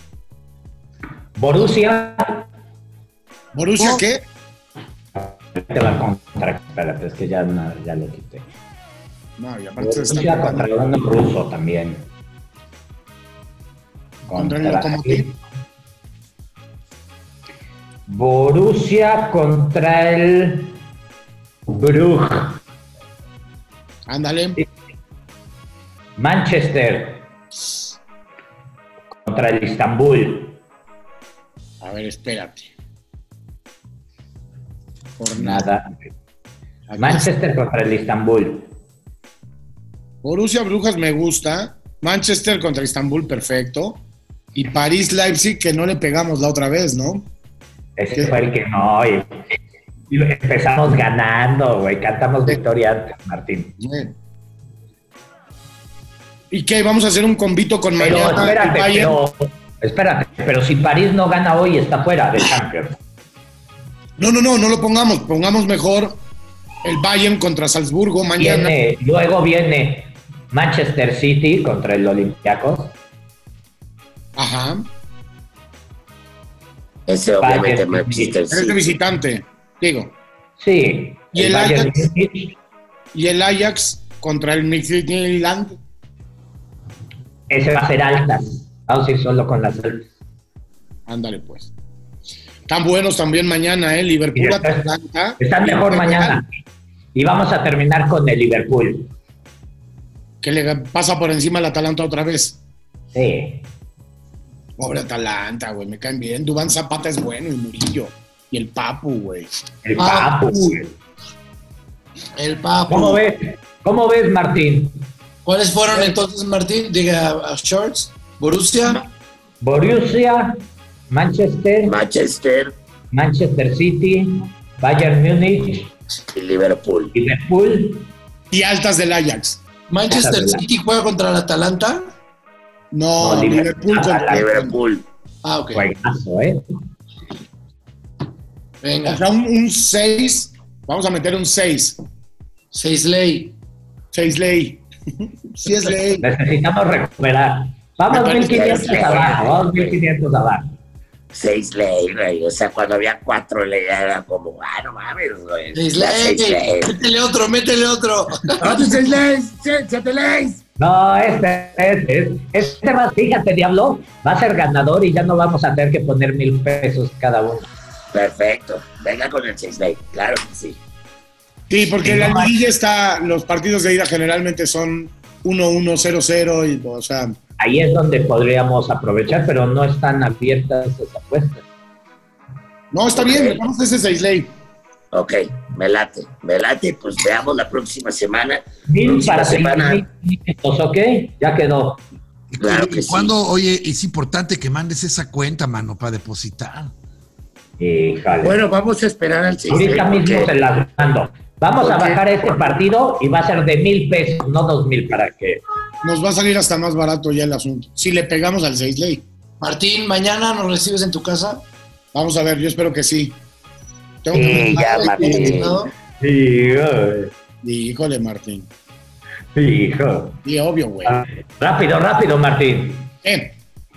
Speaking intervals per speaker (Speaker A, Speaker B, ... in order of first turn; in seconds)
Speaker A: 1.4-2.5, 5.1-8.5, 9.8-12.1, 14.3-15.3, 18.1-20.8, 21.7-22.6, 26.2-27.2, 29.2-30.6, 35.4-36.1, 37.0-38.7, 48.0-49.5, 50.1-53.8, 58.0-63.0, 68.4-72.9, 77.4-78.3, 80.6-82.5, 87.5-90.1, 94.3-96.5, 97.1-99.1, 103.1-103.6, 109.8-110.9, 112.9-115.0, 119.6-120.6, 121.1-122.0, 123.1-125.9, 127.1-128.1, 130.1-130.6, 133.2-134.4, 135.7-136.6, 146.2-150.7, 160.8-167.7, 172.0-172.5, 177.6-181.6, 188.9-192.0, 197.8-198.5, 199.7-205.6, 216.2-217.3, 219.5-220.4, 221.0-223.1
Speaker B: 3.5-4.2, 9.4-10.9, 14.3-15.3, 24.1-24.6, 31.8-32.7, 35.2-35.6, 36.9-37.3, 40.2-44.0, 44.5-47.3, 53.8-54.1, 56.5-59.1, 64.2-66.2, 66.8-68.7, 74.3-74.9, 78.5-80.1, 81.3-82.1, 83.1-85.8, 91.1-91.7, 92.7-96.4, 100.4-102.6, 104.8-109.5, 128.5-129.6, 132.9-134.8, 139.1-142.0, 144.1-146.2, 148.1-149.4, 171.7-177.4, 182.9-184.5, 206.0-209.2, 212.1-213.4, 214.2-215.5, 217.6-218.7, 220.4-221.2, 223.2-223.5
Speaker C: 77.1-79.0, 121.8-122.8, 126.3-127.1, 134.3-135.0, 148.3-150.0, 151.3-157.0, 168.1-170.8, 183.1-183.6, 185.1-190.1, 192.6-193.3, 199.7-200.4, 214.3-215.8
Speaker D: 110.0-110.8, 112.4-113.2, 115.4-119.0, 129.9-132.1, 135.4-135.8, 138.8-139.2, 142.7-143.5, 155.7-158.8, 209.6-211.6, 214.7-215.9
Speaker E: 158.6-160.6, 198.4-200.5, 201.8-202.4
Speaker F: 192.6-196.9